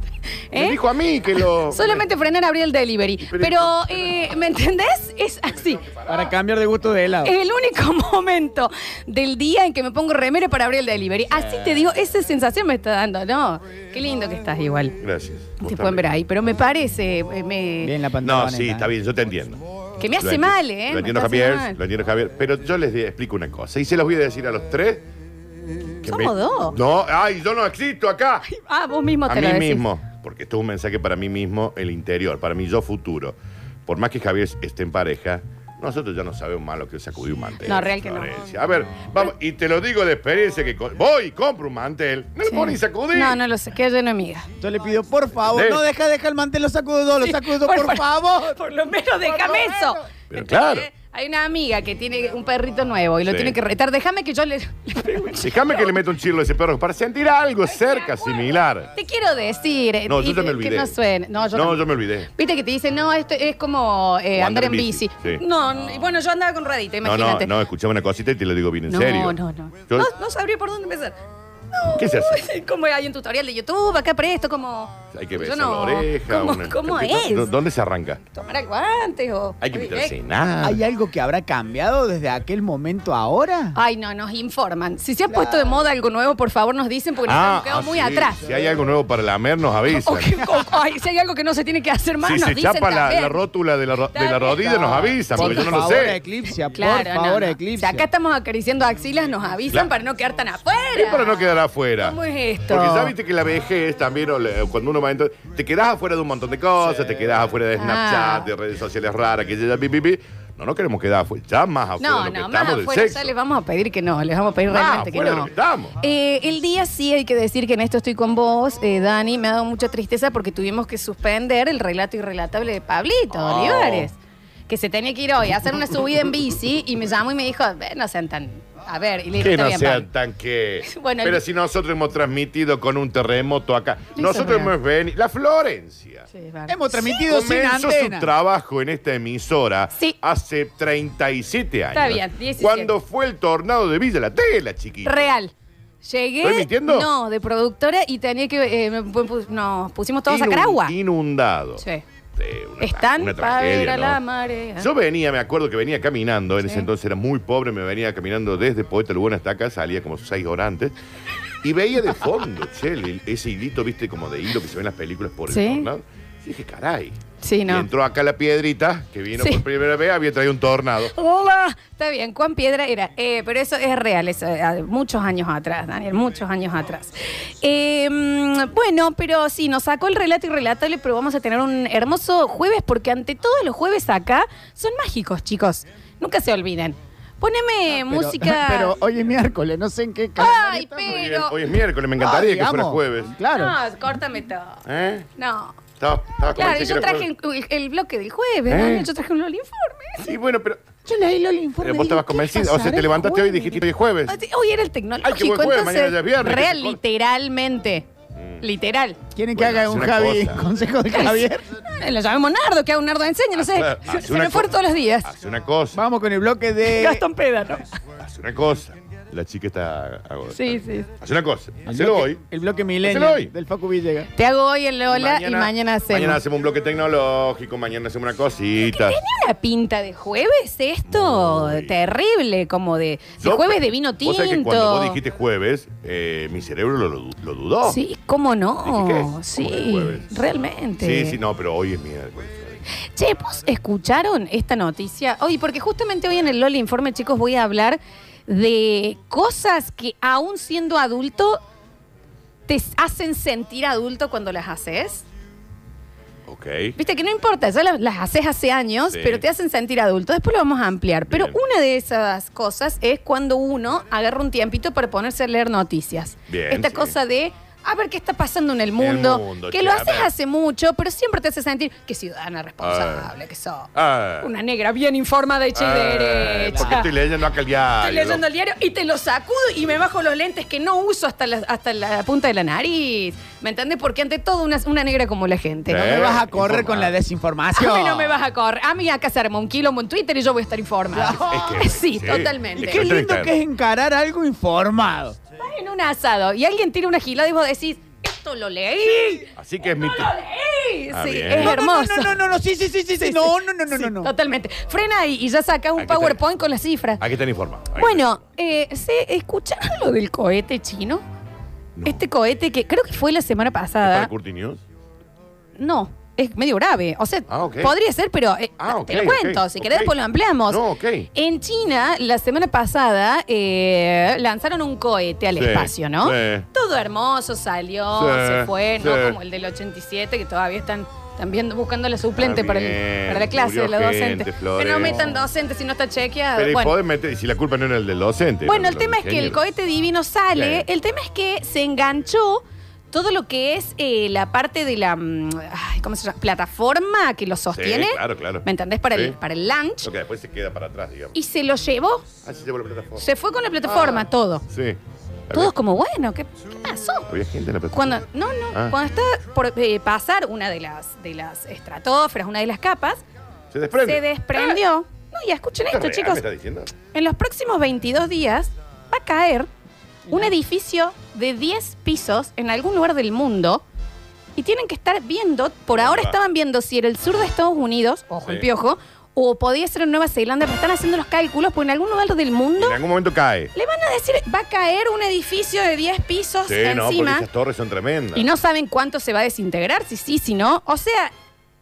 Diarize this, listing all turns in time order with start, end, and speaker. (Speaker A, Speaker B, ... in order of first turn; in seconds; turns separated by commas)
Speaker A: 0.5-0.8, Speaker B: 0.5-2.0, Speaker A: 1.7-5.8, Speaker B: 3.2-4.3, Speaker C: 6.1-7.3, Speaker A: 7.2-15.0, Speaker B: 15.0-16.1, Speaker A: 15.6-18.0, Speaker C: 17.8-18.9, Speaker B: 18.2-19.6, Speaker A: 20.0-21.8, Speaker B: 20.1-25.0, Speaker A: 26.0-26.8, Speaker B: 26.0-28.5, Speaker A: 28.5-29.9, Speaker B: 29.3-43.4, Speaker A: 37.6-38.3, Speaker A: 42.5-44.5, Speaker C: 44.6-48.6, Speaker B: 45.5-45.8, Speaker A: 47.2-56.0, Speaker C: 49.3-50.0, Speaker B: 50.3-50.9, Speaker B: 53.3-53.6, Speaker B: 55.4-58.9, Speaker A: 57.7-67.5, Speaker B: 60.1-61.0, Speaker B: 61.5-62.3, Speaker B: 64.3-65.4, Speaker B: 67.0-69.4, Speaker A: 68.9-71.2, Speaker A: 71.7-77.5, Speaker B: 72.0-72.4, Speaker B: 75.1-78.2, Speaker A: 78.3-80.1, Speaker B: 79.6-80.8, Speaker C: 80.6-83.8, Speaker A: 83.7-88.4, Speaker C: 85.3-85.7, Speaker B: 87.3-90.4, Speaker A: 89.9-93.4, Speaker B: 92.2-96.2, Speaker A: 94.1-95.8, Speaker C: 95.3-98.1, Speaker A: 96.7-103.1, Speaker B: 101.0-113.3, Speaker A: 107.8-108.5, Speaker A: 112.0-130.1, Speaker B: 114.7-116.0, Speaker B: 123.3-124.1, Speaker B: 129.4-136.3, Speaker A: 130.9-131.4, Speaker A: 134.2-134.8, Speaker A: 136.3-137.3, Speaker C: 136.7-138.3, Speaker B: 137.2-145.3, Speaker A: 141.9-142.9, Speaker A: 145.1-150.9, Speaker B: 146.4-147.1, Speaker B: 150.3-151.8, Speaker A: 151.8-152.0, Speaker B: 152.4-154.2, Speaker A: 152.8-154.9, Speaker B: 154.8-160.9, Speaker B: 161.6-171.1, Speaker A: 165.5-165.9, Speaker A: 167.4-167.9, Speaker A: 171.1-188.9, Speaker C: 187.9-191.2, Speaker A: 190.4-191.6, Speaker B: 191.1-193.3, Speaker C: 192.2-193.8, Speaker A: 193.5-194.8, Speaker B: 194.9-195.3, Speaker A: 195.4-195.8, Speaker B: 196.0-197.3, Speaker A: 196.5-200.3, Speaker B: 198.7-199.1, Speaker B: 200.2-200.8, Speaker C: 201.1-203.8, Speaker B: 201.8-204.3, Speaker A: 204.3-208.1, Speaker B: 205.2-207.0, Speaker B: 208.4-208.7, Speaker A: 208.6-209.2, Speaker C: 209.4-211.7, Speaker B: 209.6-210.7, Speaker A: 211.1-215.3, Speaker B: 213.6-214.7, Speaker B: 215.2-216.0, Speaker C: 215.9-217.2, Speaker A: 216.8-217.9, Speaker B: 218.2-222.4, Speaker A: 220.5-221.1, Speaker C: 221.9-224.3, Speaker B: 223.0-223.5, Speaker A: 224.3-226.4, Speaker B: 225.1-229.2, Speaker A: 228.9-235.2, Speaker B: 231.1-232.0, Speaker B: 233.4-238.0, Speaker A: 237.8-241.4, Speaker B: 238.8-240.3, Speaker B: 241.0-242.8, Speaker A: 243.1-251.6, Speaker A: 252.7-255.2, Speaker B: 256.5-256.9, Speaker A: 257.0-277.1, Speaker B: 259.1-259.4, Speaker B: 261.3-261.6, Speaker B: 266.5-267.1, Speaker B: 269.0-270.3, Speaker B: 272.8-273.3, Speaker B: 273.9-274.5, Speaker B: 275.8-278.4, Speaker A: 278.0-286.3, Speaker B: 285.9-287.1, Speaker C: 285.9-288.4, Speaker A: 287.8-293.1, Speaker C: 291.1-291.5, Speaker B: 291.3-293.6, Speaker C: 292.8-295.4, Speaker A: 295.6-302.4, Speaker B: 299.6-300.3, Speaker B: 301.1-301.8, Speaker C: 301.6-304.3, Speaker A: 303.2-307.2, Speaker B: 306.0-306.4, Speaker B: 307.2-308.4, Speaker A: 308.0-311.2, Speaker B: 312.0-312.2, Speaker A: 312.1-314.3, Speaker B: 314.0-314.8, Speaker A: 315.8-320.8, Speaker B: 317.5-317.9, Speaker B: 318.8-320.1, Speaker B: 320.7-321.3, Speaker A: 321.3-337.0, Speaker B: 325.6-326.7, Speaker B: 328.2-329.4, Speaker B: 332.4-335.4, Speaker B: 336.6-339.6, Speaker A: 338.6-350.1, Speaker B: 340.6-340.9, Speaker B: 347.7-349.4, Speaker B: 350.0-351.4, Speaker A: 351.3-352.2, Speaker B: 352.4-353.2, Speaker A: 353.2-354.6, Speaker B: 353.8-355.0, Speaker B: 355.5-355.7, Speaker A: 355.5-357.3, Speaker B: 357.3-358.2, Speaker A: 357.9-363.2, Speaker B: 363.7-364.8, Speaker A: 364.1-366.4, Speaker B: 365.9-366.9, Speaker A: 367.1-369.7, Speaker A: 370.3-373.8, Speaker A: 374.6-383.0, Speaker B: 375.9-376.4, Speaker B: 382.8-383.7, Speaker A: 383.8-387.5, Speaker B: 386.7-388.4, Speaker A: 388.4-391.3